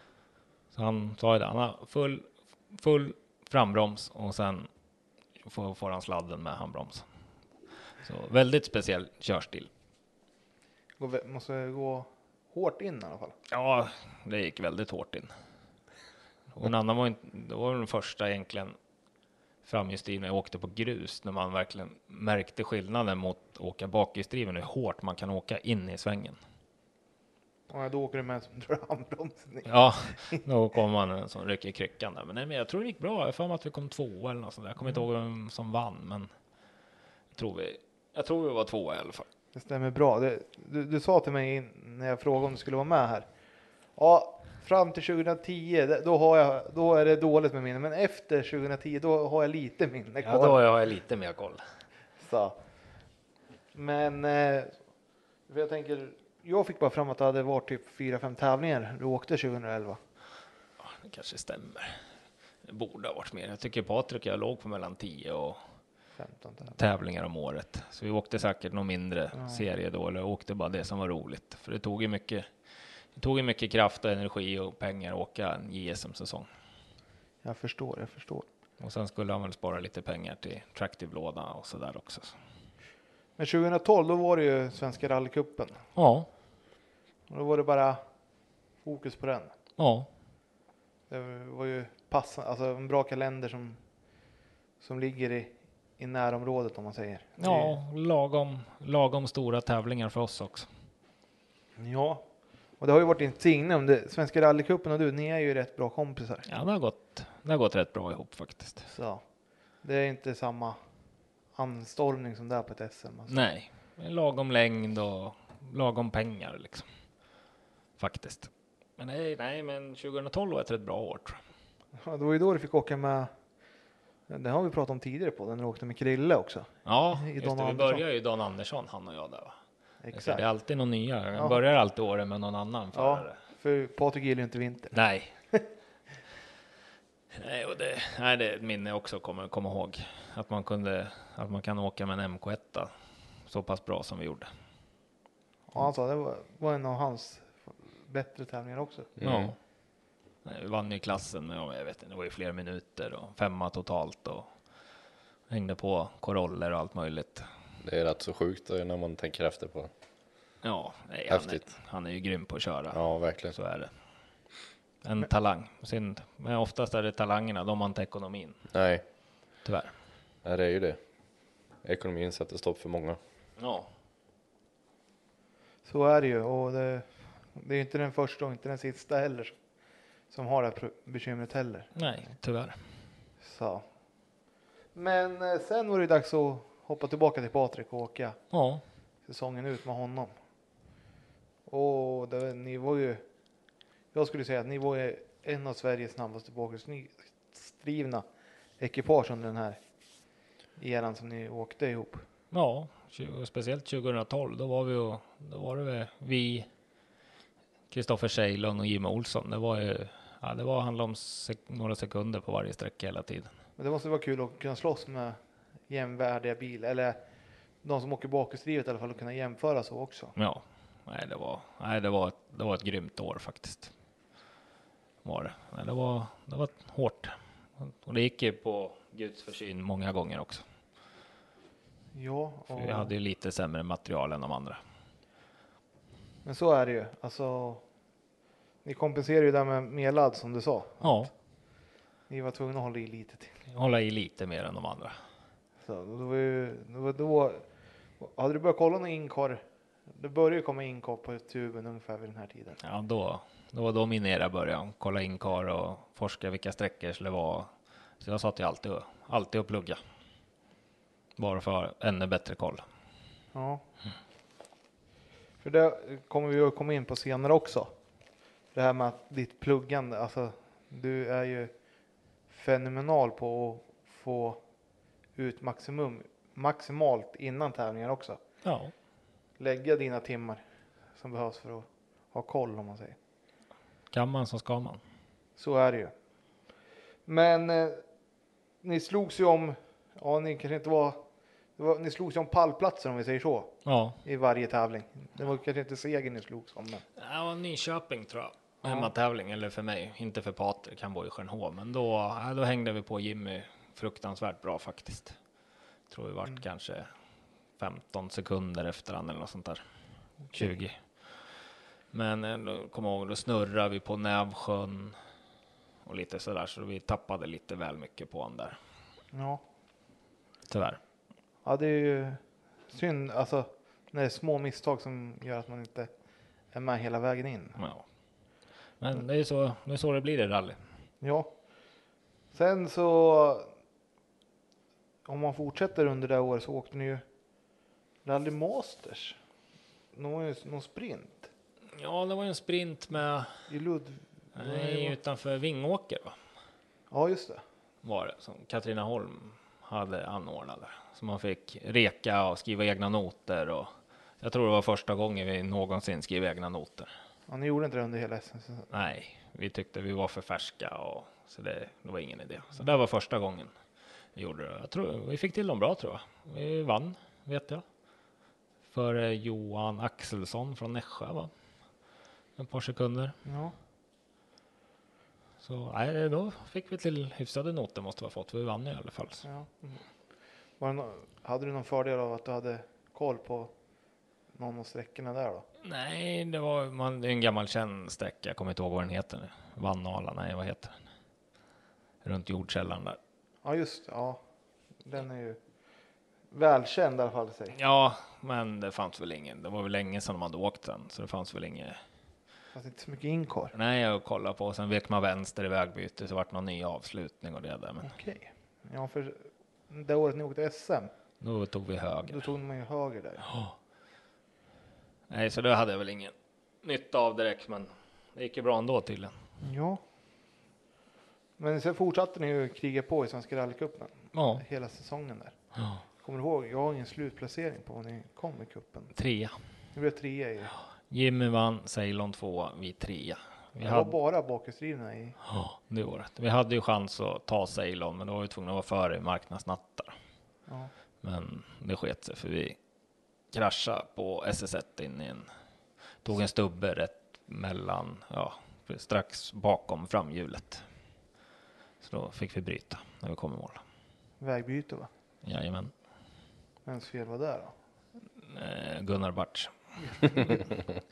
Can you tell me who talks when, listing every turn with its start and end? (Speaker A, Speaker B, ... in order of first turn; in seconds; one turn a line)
Speaker A: 0.7-4.7
Speaker A: 5.4-7.0
Speaker A: 8.0-9.7
Speaker B: 11.0-13.3
Speaker A: 13.5-15.3
Speaker A: 16.5-18.8
Speaker A: 19.6-26.4
Speaker B: 27.7-29.7
Speaker A: 29.6-36.3
Speaker A: 37.3-39.2
Speaker B: 39.5-43.3
Speaker B: 44.0-50.6
Speaker A: 50.2-51.6
Speaker B: 52.2-52.6
Speaker B: 53.7-54.8
Speaker B: 55.5-60.0
Speaker A: 60.8-62.0
Speaker A: 62.6-65.6
Speaker B: 66.2-66.7
Speaker A: 66.7-72.5
Speaker B: 69.3-69.6
Speaker A: 73.2-76.5
Speaker B: 77.4-78.5
Speaker A: 78.8-82.3
Speaker B: 83.4-85.8
Speaker A: 86.0-86.3
Speaker B: 87.3-88.0
Speaker B: 88.8-89.5
Speaker A: 89.8-90.1
Speaker B: 91.1-93.8
Speaker B: 94.8-97.8
Speaker A: 97.4-100.7
Speaker B: 101.8-106.5
Speaker A: 106.5-108.8
Speaker B: 108.8-109.2
Speaker B: 109.8-110.8
Speaker B: 111.5-113.4
Speaker A: 113.3-116.8
Speaker A: 118.0-121.4
Speaker B: 122.0-123.3
Speaker B: 124.3-128.0
Speaker A: 126.8-129.6
Speaker B: 130.0-130.4
Speaker A: 130.1-133.3
Speaker B: 132.9-134.9
Speaker A: 134.9-135.3
Speaker A: 137.3-142.9
Speaker A: 143.4-144.5
Speaker B: 145.7-149.1
Speaker C: 149.2-149.5
Speaker A: 149.2-149.6
Speaker A: 150.4-154.5
Speaker A: 155.5-157.5
Speaker C: 157.8-159.9
Speaker A: 160.6-163.9
Speaker C: 161.3-161.6
Speaker C: 162.9-163.5
Speaker A: 165.0-168.6
Speaker C: 168.7-169.0
Speaker A: 169.6-169.9
Speaker C: 170.4-171.0
Speaker C: 171.8-173.2
Speaker A: 173.6-173.9
Speaker B: 175.8-179.6
Speaker B: 180.3-181.9
Speaker A: 181.9-182.8
Speaker B: 183.4-183.9
Speaker B: 184.9-188.4
Speaker A: 188.5-188.8
Speaker B: 189.2-190.3
Speaker B: 191.7-193.2
Speaker B: 194.1-198.2
Speaker B: 198.8-199.8
Speaker B: 200.8-202.2
Speaker A: 202.5-206.7
Speaker A: 207.9-213.5
Speaker B: 213.8-217.2
Speaker B: 217.8-220.3
Speaker A: 220.3-223.9
Speaker A: 225.2-230.6
Speaker B: 232.1-233.1
Speaker A: 232.7-234.8
Speaker B: 236.4-237.8
Speaker B: 238.8-241.3
Speaker A: 241.0-241.3
Speaker B: 242.3-243.6
Speaker A: 243.7-245.2
Speaker B: 245.8-247.7
Speaker B: 248.2-252.8
Speaker A: 252.8-257.7
Speaker A: 258.2-260.0
Speaker A: 261.4-262.8
Speaker B: 263.5-263.8
Speaker B: 265.6-267.9
Speaker B: 268.7-271.7
Speaker B: 272.5-274.6
Speaker B: 275.3-278.4
Speaker A: 278.6-278.9
Speaker B: 279.6-280.6
Speaker B: 281.1-283.1
Speaker A: 284.1-285.0
Speaker B: 285.6-286.1
Speaker B: 287.2-288.0
Speaker B: 288.8-291.2
Speaker B: 291.8-297.0
Speaker A: 293.8-294.2
Speaker A: 297.2-305.4
Speaker B: 298.8-299.1
Speaker A: 306.1-307.1
Speaker A: 307.8-309.8
Speaker A: 310.5-311.6
Speaker A: 312.1-315.2
Speaker A: 316.0-318.8
Speaker B: 319.3-319.6
Speaker A: 320.7-321.0
Speaker B: 321.6-326.1
Speaker B: 326.7-327.8
Speaker A: 327.8-328.0
Speaker A: 329.0-330.8
Speaker B: 331.2-331.5
Speaker B: 332.5-333.7
Speaker B: 335.2-337.2
Speaker B: 338.2-339.4
Speaker B: 340.1-341.5
Speaker A: 341.9-343.5
Speaker B: 343.7-345.1
Speaker A: 344.6-346.4
Speaker B: 347.1-347.6
Speaker A: 348.0-357.1
Speaker B: 357.5-358.9
Speaker A: 358.9-363.7
Speaker A: 364.3-367.8
Speaker A: 368.9-371.5
Speaker A: 372.6-373.4
Speaker B: 373.4-373.7
Speaker A: 375.6-379.4
Speaker B: 379.4-380.0
Speaker B: 380.8-383.7
Speaker B: 384.5-385.6
Speaker A: 385.8-391.0
Speaker A: 392.2-393.2
Speaker B: 393.6-394.4
Speaker B: 395.0-395.6
Speaker B: 396.5-397.8
Speaker A: 397.7-402.0
Speaker B: 402.7-403.7
Speaker A: 403.7-408.1
Speaker B: 408.0-411.1
Speaker A: 411.4-412.4
Speaker B: 412.3-413.5
Speaker A: 415.3-419.4
Speaker B: 419.6-420.0
Speaker B: 421.6-425.6
Speaker A: 424.3-424.6
Speaker B: 426.2-429.1
Speaker A: 429.1-429.6
Speaker B: 429.9-430.7
Speaker A: 431.1-434.1
Speaker B: 433.8-435.4
Speaker A: 435.4-440.1
Speaker A: 441.2-442.8
Speaker A: 443.5-445.5
Speaker A: 446.2-450.8
Speaker A: 452.0-453.8
Speaker B: 454.4-455.1
Speaker A: 455.4-455.9
Speaker B: 456.9-457.7
Speaker A: 458.4-460.7